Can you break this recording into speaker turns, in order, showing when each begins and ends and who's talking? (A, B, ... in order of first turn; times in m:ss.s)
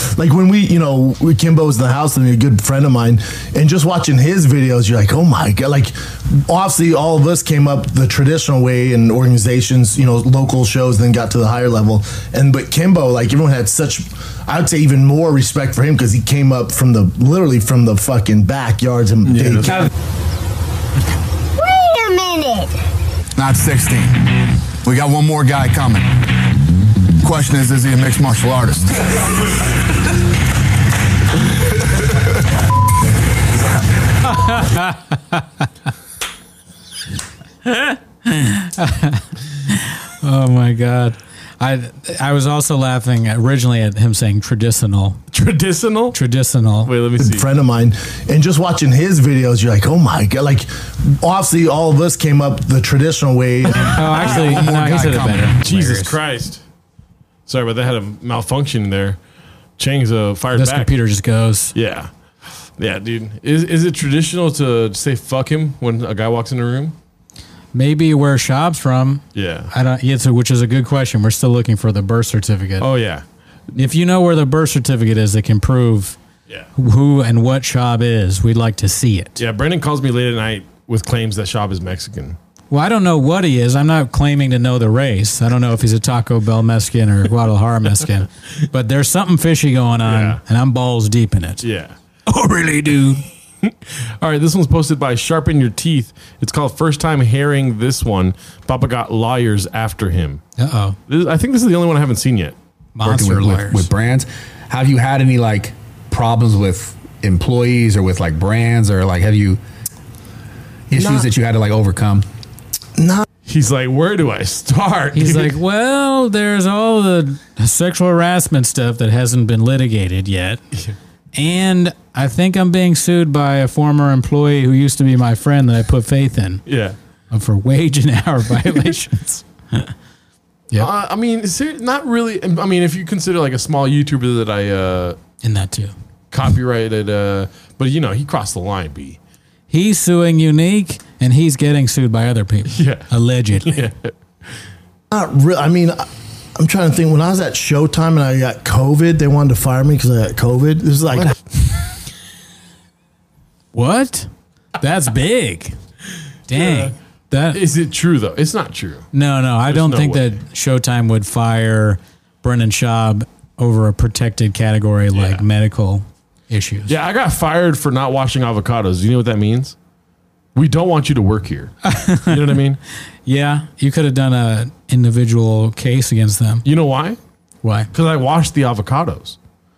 0:00.2-0:19.8 A
0:19.4-0:19.8 B
0:23.4-0:24.2 C
0:24.8-0:26.2 C
0:27.2-0:29.0 C
0:34.2-0:35.4 D
0:38.3-0:45.2 D
0:45.3-0:46.2 B
0:46.1-0:46.9 D
0:46.8-0:47.4 B
0:47.2-0:53.9 A
0:53.8-0:56.2 D
0:54.1-0:54.7 B
0:54.2-0:55.5 C
0:55.6-0:56.6 B
0:57.5-0:59.2 B
0:59.8-1:00.9 B
1:00.5-1:01.8 D
1:01.7-1:02.1 B
1:02.8-1:07.0 B
1:07.7-1:12.9 D
1:09.4-1:09.7 B
1:12.8-1:13.2 B
1:13.8-1:16.2 D
1:16.8-1:19.4 D
1:19.4-1:22.4 B
1:22.7-1:31.7 D
1:30.0-1:30.4 B
1:31.6-1:31.9 B
1:32.3-1:33.2 D
1:33.6-1:40.4 B
1:40.6-1:41.0 D
1:41.1-1:42.6 B
1:43.0-1:43.9 D
1:43.0-1:49.6 E
1:50.9-1:52.3 E
1:50.9-1:51.3 A
1:53.0-1:53.3 A
1:53.5-1:55.6 B
1:55.1-2:00.6 D
2:01.4-2:06.6 D
2:06.7-2:07.0 B
2:07.3-2:09.9 D
2:10.8-2:15.2 B
2:15.4-2:15.9 D
2:16.3-2:19.2 B
2:19.7-2:23.8 D
2:22.7-2:23.1 B
2:23.7-2:24.1 B
2:25.1-2:26.1 A
2:26.6-2:31.4 A
2:33.7-2:34.3 D
2:34.8-2:35.7 D
2:36.5-2:37.6 D
2:36.5-2:36.9 B
2:37.5-2:39.1 B
2:39.1-2:47.0 D
2:39.7-2:40.4 B
2:45.1-2:45.4 B
2:46.9-2:49.8 B
2:50.6-2:51.7 B
2:51.9-2:52.5 D
2:52.3-2:52.8 B
2:53.3-2:56.6 D
2:56.6-2:57.2 B
2:57.6-2:57.9 D
2:57.9-2:59.4 B